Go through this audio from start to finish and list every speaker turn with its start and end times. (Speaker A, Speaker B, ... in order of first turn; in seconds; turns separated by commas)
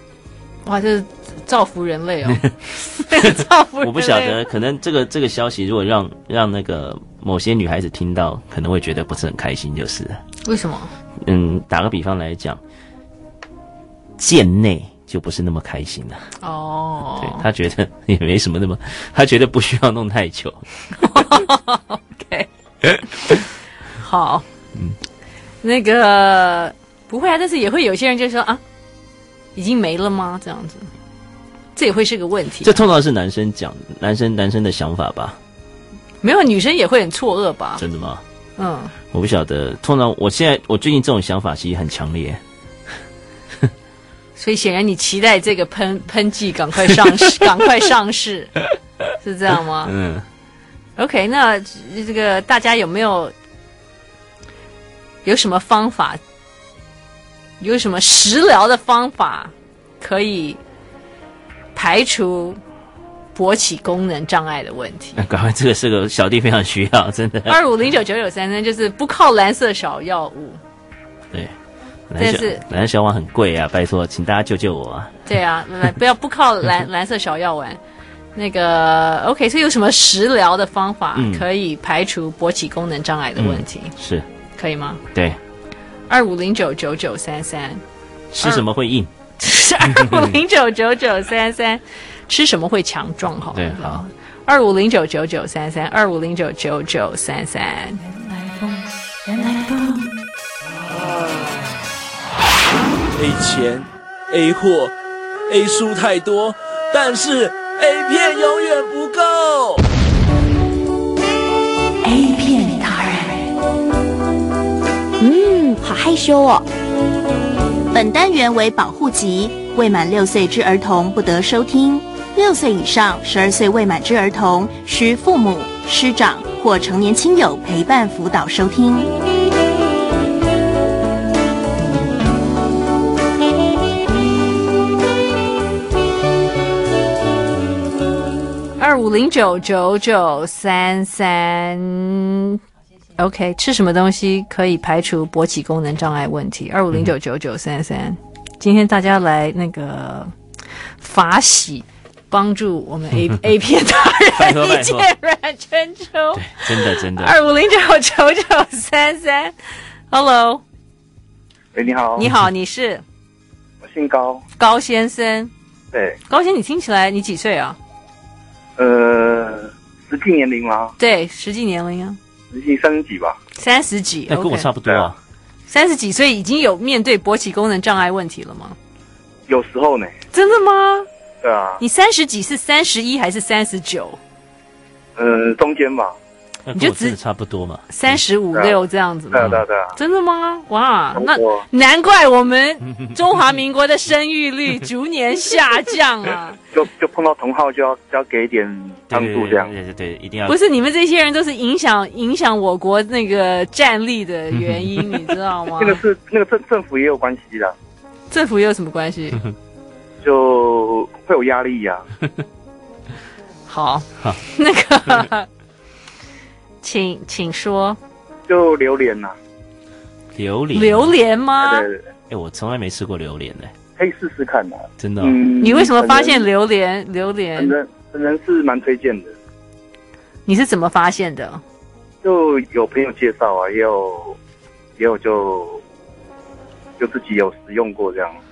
Speaker A: 0.7-4.4, Speaker B: 3.8-10.2, Speaker A: 10.4-10.9, Speaker B: 11.2-12.6, Speaker B: 14.2-16.3, Speaker A: 16.4-17.5, Speaker B: 17.2-20.7, Speaker A: 21.0-22.5, Speaker A: 24.0-24.4, Speaker A: 25.6-28.6, Speaker A: 29.6-30.9, Speaker A: 31.8-32.8, Speaker B: 32.6-35.4, Speaker A: 36.2-37.8, Speaker B: 37.8-38.2, Speaker A: 38.6-38.9, Speaker B: 39.1-42.4, Speaker A: 44.4-48.5, Speaker A: 49.2-49.9, Speaker B: 49.8-50.3, Speaker A: 51.0-53.3, Speaker A: 55.2-56.2, Speaker A: 57.6-60.6, Speaker A: 61.8-62.6, Speaker A: 63.4-65.2, Speaker B: 65.2-67.6, Speaker A: 67.5-70.6, Speaker B: 72.1-75.2, Speaker A: 72.2-72.6, Speaker A: 75.3-77.8, Speaker A: 78.3-83.9, Speaker B: 81.2-81.5, Speaker B: 83.4-84.3, Speaker A: 84.6-85.0, Speaker B: 85.1-85.4, Speaker A: 86.1-87.8, Speaker B: 88.3-89.1, Speaker A: 89.4-98.0, Speaker B: 89.9-90.3, Speaker B: 93.5-94.0, Speaker C: 103.1-105.0, Speaker C: 105.5-109.8, Speaker D: 112.1-113.3, Speaker D: 115.2-116.7, Speaker E: 117.9-129.1, Speaker A: 138.8-142.6, Speaker A: 143.2-150.3, Speaker A: 151.0-159.5, Speaker B: 154.4-155.1, Speaker B: 156.3-157.4, Speaker A: 160.1-160.6, Speaker F: 161.7-162.2, Speaker A: 162.2-163.0, Speaker F: 163.8-164.4, Speaker A: 164.6-165.5, Speaker A: 166.3-167.8, Speaker F: 168.8-170.9, Speaker A: 171.0-172.2, Speaker F: 172.5-173.4, Speaker A: 173.6-174.7, Speaker B: 174.3-175.2, Speaker A: 175.7-178.8, Speaker F: 179.5-180.2, Speaker A: 180.3-181.1, Speaker F: 181.4-181.8, Speaker A: 181.8-184.2, Speaker F: 185.2-186.2, Speaker B: 186.7-188.2, Speaker A: 186.8-187.2, Speaker A: 187.9-196.6, Speaker F: 189.3-189.9, Speaker F: 191.1-191.6, Speaker F: 196.7-199.7, Speaker B: 199.1-200.6, Speaker A: 200.5-206.0, Speaker B: 204.6-205.0, Speaker F: 205.8-207.7, Speaker A: 208.3-209.4, Speaker F: 210.2-212.1, Speaker A: 213.7-215.5, Speaker A: 216.8-218.0, Speaker F: 218.5-219.3, Speaker B: 220.3-221.2, Speaker A: 220.7-221.9, Speaker F: 221.6-222.0, Speaker B: 222.3-223.7, Speaker F: 224.0-226.5, Speaker B: 225.0-225.4, Speaker A: 225.6-227.7, Speaker F: 227.6-229.3, Speaker A: 230.5-231.6, Speaker F: 232.2-234.4, Speaker F: 235.0-235.8, Speaker F: 237.0-238.4